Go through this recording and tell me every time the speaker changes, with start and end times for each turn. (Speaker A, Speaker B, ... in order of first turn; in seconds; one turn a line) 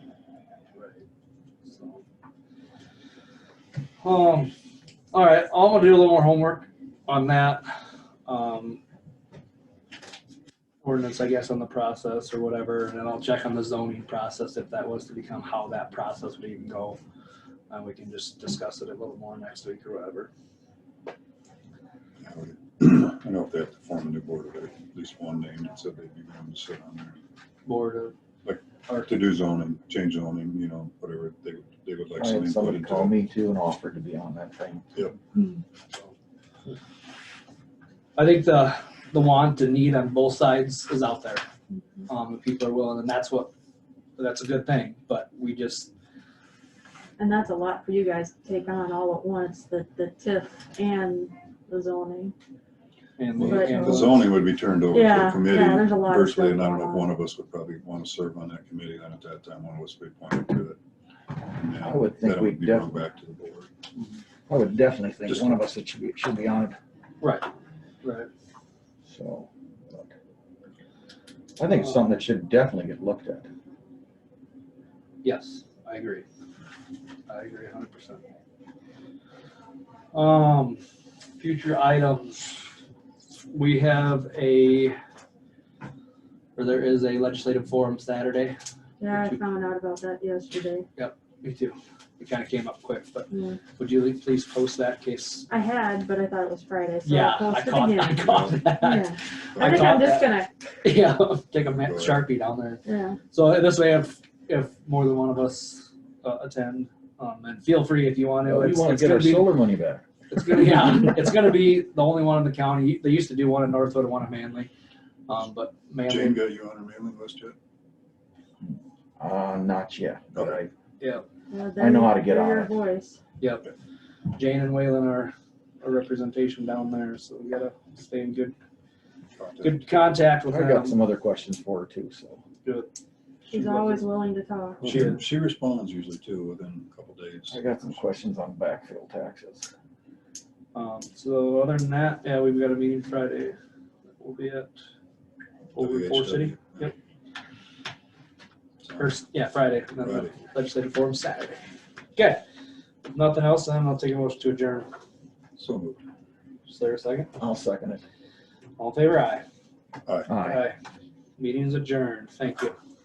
Speaker A: 0.7-1.0
Speaker A: 1.6-2.0
Speaker A: 4.0-4.5
Speaker A: 5.1-7.7
Speaker A: 8.3-8.8
Speaker A: 10.8-17.0
Speaker A: 17.7-20.3
Speaker B: 22.2-27.2
Speaker A: 27.6-28.1
Speaker B: 28.4-33.2
Speaker C: 32.2-34.9
Speaker A: 38.2-41.4
Speaker A: 42.1-43.5
Speaker A: 44.2-45.9
Speaker D: 47.2-52.3
Speaker A: 53.2-54.3
Speaker B: 53.4-60.8
Speaker D: 53.4-54.2
Speaker D: 54.9-57.1
Speaker B: 61.5-63.7
Speaker C: 61.8-63.0
Speaker C: 64.5-66.8
Speaker B: 65.3-65.6
Speaker A: 67.2-67.5
Speaker A: 68.0-68.3
Speaker C: 69.1-70.1
Speaker C: 71.6-73.5
Speaker A: 75.2-76.3
Speaker A: 77.3-78.2
Speaker A: 80.1-80.8
Speaker A: 81.4-82.4
Speaker A: 83.5-85.0
Speaker A: 86.6-88.6
Speaker D: 89.0-90.9
Speaker A: 89.1-89.4
Speaker A: 91.0-95.5
Speaker D: 93.3-93.6
Speaker D: 95.5-98.2
Speaker A: 97.0-109.5
Speaker B: 98.2-98.6
Speaker D: 98.8-100.5
Speaker B: 99.5-100.1
Speaker B: 101.8-102.3
Speaker D: 102.8-103.2
Speaker C: 108.5-111.0
Speaker A: 110.3-114.7
Speaker A: 115.3-116.4
Speaker B: 116.1-117.6
Speaker C: 118.7-120.7
Speaker D: 121.5-123.2
Speaker C: 121.8-122.7
Speaker A: 123.4-123.7
Speaker A: 124.3-128.6
Speaker B: 129.4-129.8
Speaker A: 129.6-130.9
Speaker C: 130.5-132.4
Speaker A: 132.7-132.9
Speaker A: 133.5-134.0
Speaker D: 133.5-134.9
Speaker A: 134.8-135.2
Speaker B: 134.8-137.9
Speaker C: 137.5-139.7
Speaker A: 140.7-143.6
Speaker A: 144.2-144.7
Speaker A: 145.8-146.9
Speaker B: 145.8-146.9
Speaker B: 148.8-149.2
Speaker A: 149.0-151.6
Speaker B: 150.0-150.3
Speaker A: 152.2-152.4
Speaker A: 153.1-154.9
Speaker B: 155.6-156.0
Speaker A: 156.7-157.3
Speaker C: 157.4-158.0
Speaker A: 158.8-159.4
Speaker B: 160.1-160.4
Speaker C: 160.3-160.7
Speaker A: 160.4-160.8
Speaker A: 161.4-162.8